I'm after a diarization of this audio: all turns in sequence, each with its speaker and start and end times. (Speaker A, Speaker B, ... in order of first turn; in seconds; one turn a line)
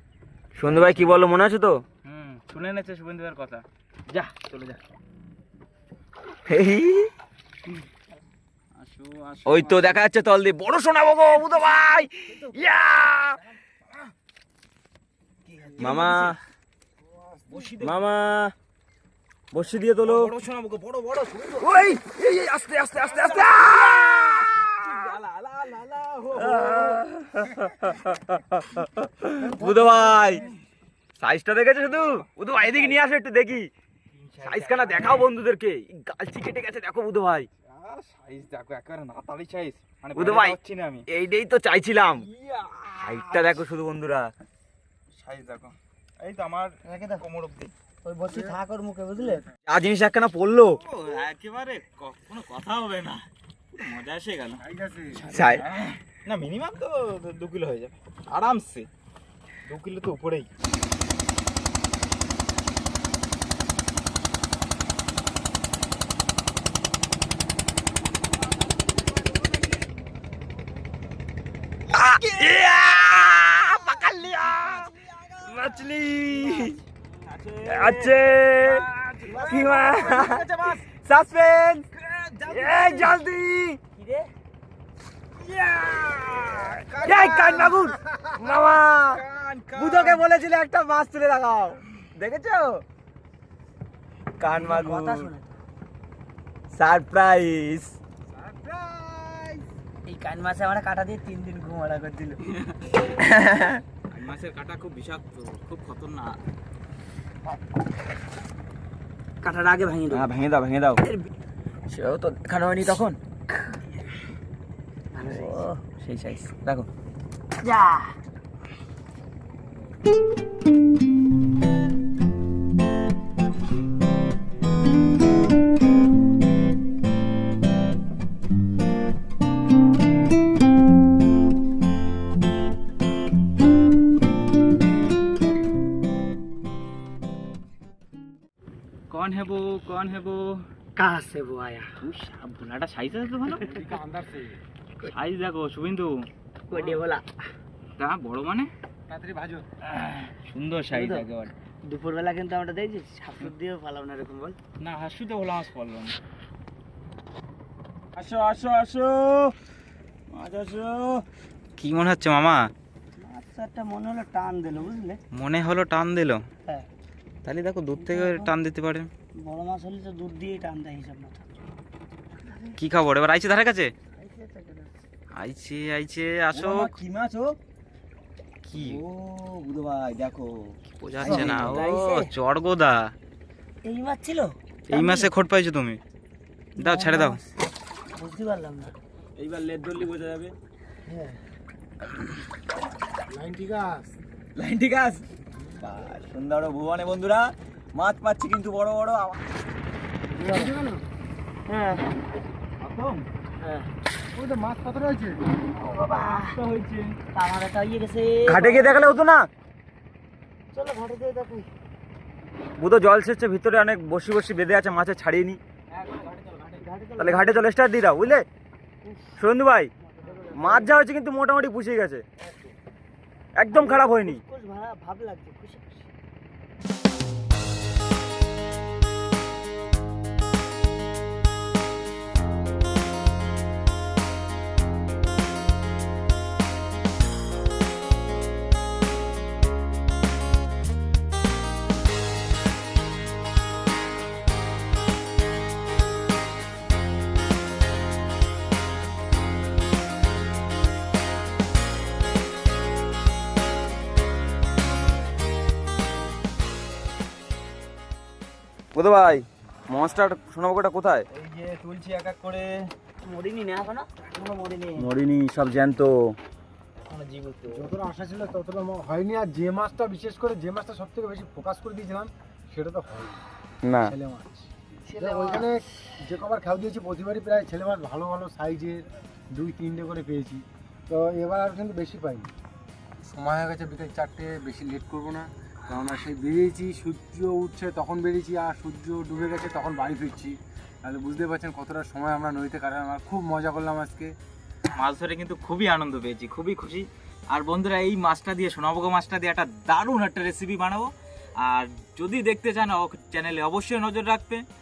Speaker A: 0.6-1.8
Speaker B: 2.0-4.8
Speaker A: 6.5-7.1
Speaker B: 8.8-10.0
Speaker A: 9.5-13.4
Speaker B: 15.5-16.4
Speaker A: 15.8-16.4
Speaker C: 17.2-17.7
Speaker B: 17.5-18.0
Speaker A: 17.8-18.5
Speaker A: 19.5-20.3
Speaker B: 20.0-21.9
Speaker A: 21.6-24.7
Speaker B: 22.9-27.1
Speaker A: 26.4-30.4
Speaker C: 29.4-30.4
Speaker A: 31.2-33.7
Speaker B: 32.0-33.0
Speaker B: 34.1-35.3
Speaker A: 34.4-37.5
Speaker B: 37.7-41.1
Speaker A: 40.1-40.6
Speaker A: 41.1-42.3
Speaker B: 42.2-43.6
Speaker A: 43.0-44.3
Speaker B: 45.1-47.7
Speaker D: 46.9-47.2
Speaker D: 48.0-49.5
Speaker C: 48.3-48.6
Speaker A: 49.7-50.8
Speaker B: 50.8-54.6
Speaker C: 54.6-55.3
Speaker A: 55.3-55.6
Speaker B: 55.5-58.9
Speaker B: 59.7-60.5
Speaker A: 71.9-76.8
Speaker B: 72.2-72.6
Speaker B: 74.0-74.9
Speaker D: 76.3-76.8
Speaker B: 77.1-80.9
Speaker A: 77.6-78.9
Speaker D: 79.3-80.2
Speaker A: 79.4-81.9
Speaker C: 80.3-80.7
Speaker B: 82.0-83.0
Speaker A: 82.5-83.8
Speaker C: 82.7-83.1
Speaker D: 84.0-84.3
Speaker B: 85.4-87.9
Speaker A: 87.0-89.2
Speaker C: 87.9-88.4
Speaker B: 88.9-90.2
Speaker A: 89.8-92.8
Speaker A: 94.4-95.3
Speaker D: 94.5-95.5
Speaker A: 96.7-97.9
Speaker B: 98.3-99.6
Speaker D: 100.0-102.4
Speaker B: 102.5-102.8
Speaker A: 103.1-103.8
Speaker B: 104.1-106.4
Speaker D: 109.4-110.3
Speaker A: 110.1-111.0
Speaker D: 111.0-111.3
Speaker A: 111.9-113.2
Speaker D: 115.1-115.8
Speaker A: 115.2-116.9
Speaker D: 117.6-118.2
Speaker B: 139.1-140.6
Speaker D: 141.0-141.9
Speaker B: 142.0-143.7
Speaker C: 143.6-144.6
Speaker B: 145.0-146.2
Speaker D: 146.7-147.3
Speaker B: 148.0-148.7
Speaker C: 149.1-149.7
Speaker B: 150.0-151.5
Speaker D: 150.9-151.2
Speaker D: 151.8-154.6
Speaker B: 154.8-156.2
Speaker A: 158.2-159.5
Speaker A: 160.3-161.2
Speaker B: 161.8-162.7
Speaker D: 163.2-165.2
Speaker B: 165.3-166.4
Speaker B: 167.4-169.1
Speaker D: 168.0-168.5
Speaker D: 169.4-171.4
Speaker B: 172.8-173.9
Speaker D: 174.2-174.9
Speaker B: 175.3-176.9
Speaker A: 176.5-177.6
Speaker B: 178.6-179.0
Speaker A: 178.7-182.1
Speaker B: 181.0-183.1
Speaker C: 181.2-181.5
Speaker D: 181.2-182.3
Speaker D: 183.8-185.3
Speaker B: 184.9-186.0
Speaker B: 186.8-187.4
Speaker D: 186.8-187.4
Speaker D: 188.2-188.9
Speaker A: 189.4-190.5
Speaker D: 191.1-191.4
Speaker C: 193.3-194.1
Speaker A: 194.6-195.2
Speaker C: 195.5-195.9
Speaker A: 195.8-199.4
Speaker D: 200.4-201.0
Speaker C: 200.4-200.8
Speaker D: 201.7-202.1
Speaker B: 202.8-203.3
Speaker D: 203.6-203.9
Speaker C: 204.3-205.4
Speaker D: 205.7-206.6
Speaker B: 206.2-207.2
Speaker D: 207.3-209.1
Speaker A: 208.5-209.5
Speaker D: 210.7-211.7
Speaker A: 212.8-215.6
Speaker B: 215.9-216.9
Speaker D: 216.8-217.7
Speaker A: 217.2-218.5
Speaker D: 219.0-219.4
Speaker A: 219.4-219.9
Speaker D: 220.0-220.9
Speaker A: 220.5-222.2
Speaker A: 223.6-224.4
Speaker D: 223.7-226.1
Speaker A: 258.9-261.3
Speaker B: 261.3-262.9
Speaker D: 263.2-264.1
Speaker B: 264.3-265.1
Speaker A: 265.0-266.4
Speaker B: 267.1-267.9
Speaker C: 267.7-273.4
Speaker A: 273.8-274.1
Speaker C: 274.0-282.5
Speaker D: 275.1-275.7
Speaker C: 283.3-294.3
Speaker B: 294.9-304.6